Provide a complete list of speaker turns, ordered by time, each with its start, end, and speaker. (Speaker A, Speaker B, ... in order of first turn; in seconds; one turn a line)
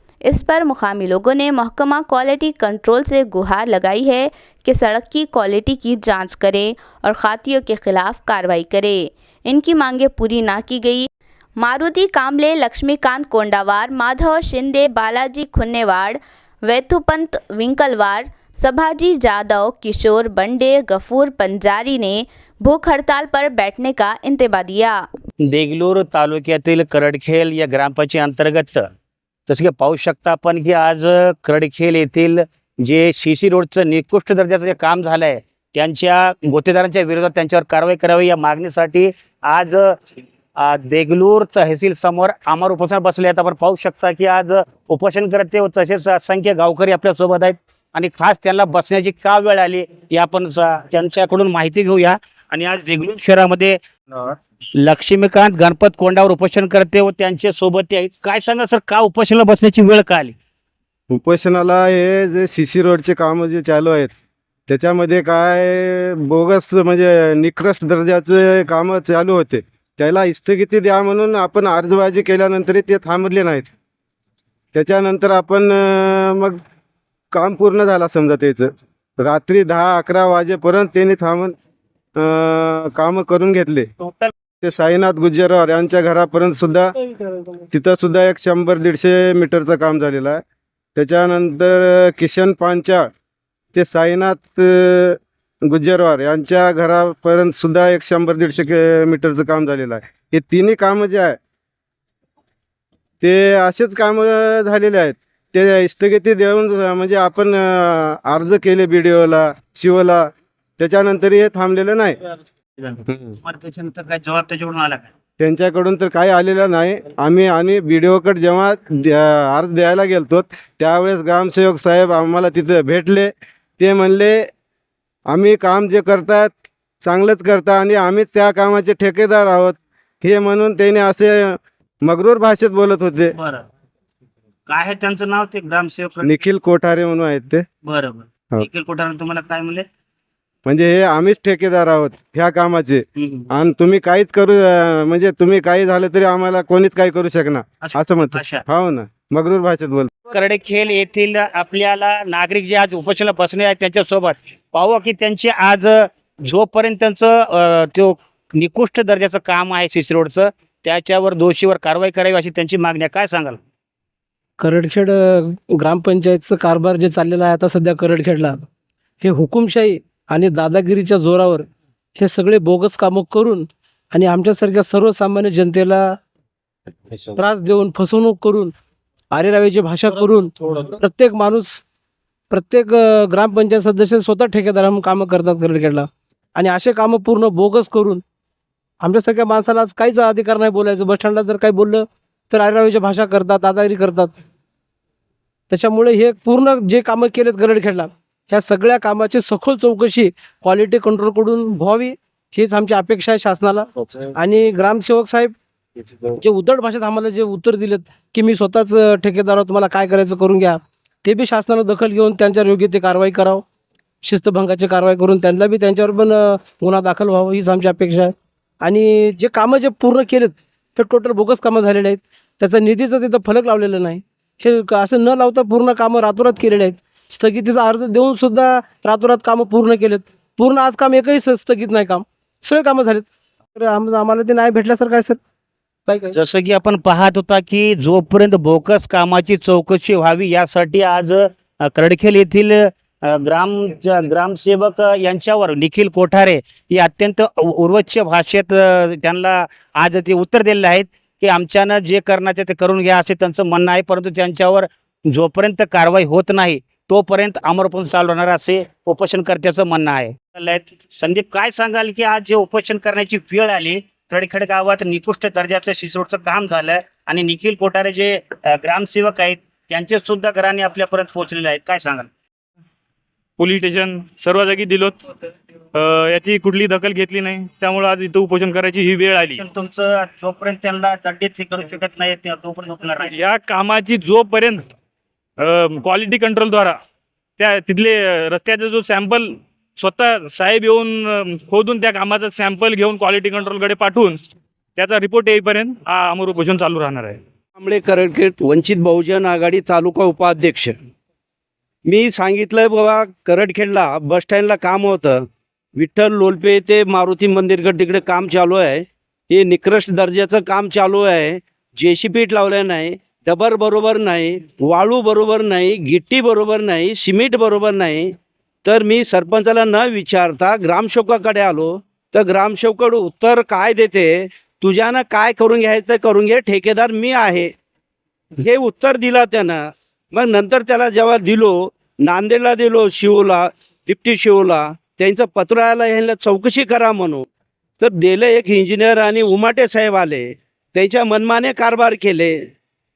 Speaker A: 0.3-25.1
Speaker B: 25.5-28.9
Speaker B: 29.5-39.9
Speaker B: 40.6-60.3
Speaker C: 61.1-64.1
Speaker C: 64.7-73.7
Speaker C: 74.7-76.6
Speaker C: 77.3-81.5
Speaker C: 82.2-83.9
Speaker B: 84.0-84.3
Speaker C: 84.6-86.9
Speaker C: 87.7-90.4
Speaker C: 91.0-93.1
Speaker C: 93.7-101.4
Speaker C: 103.2-112.2
Speaker B: 112.8-115.1
Speaker C: 113.1-113.4
Speaker C: 115.4-124.5
Speaker C: 125.3-133.3
Speaker B: 133.3-133.6
Speaker B: 134.7-136.4
Speaker C: 136.2-137.6
Speaker B: 137.8-139.8
Speaker C: 140.6-150.1
Speaker B: 143.2-143.5
Speaker B: 147.8-148.6
Speaker B: 150.3-163.6
Speaker D: 164.6-168.6
Speaker D: 169.2-176.2
Speaker D: 177.2-178.7
Speaker D: 179.3-181.8
Speaker D: 182.5-188.2
Speaker D: 189.0-194.3
Speaker D: 195.7-205.5
Speaker D: 206.3-213.6
Speaker D: 214.2-235.4
Speaker D: 236.1-236.3
Speaker B: 236.3-272.3
Speaker E: 273.6-275.2
Speaker E: 275.9-279.6
Speaker B: 279.5-283.3
Speaker E: 283.2-284.8
Speaker E: 285.6-287.0
Speaker E: 287.6-294.4
Speaker E: 295.0-297.4
Speaker F: 297.8-300.9
Speaker F: 302.1-305.4
Speaker F: 305.9-327.7
Speaker F: 328.6-337.4
Speaker F: 338.0-342.7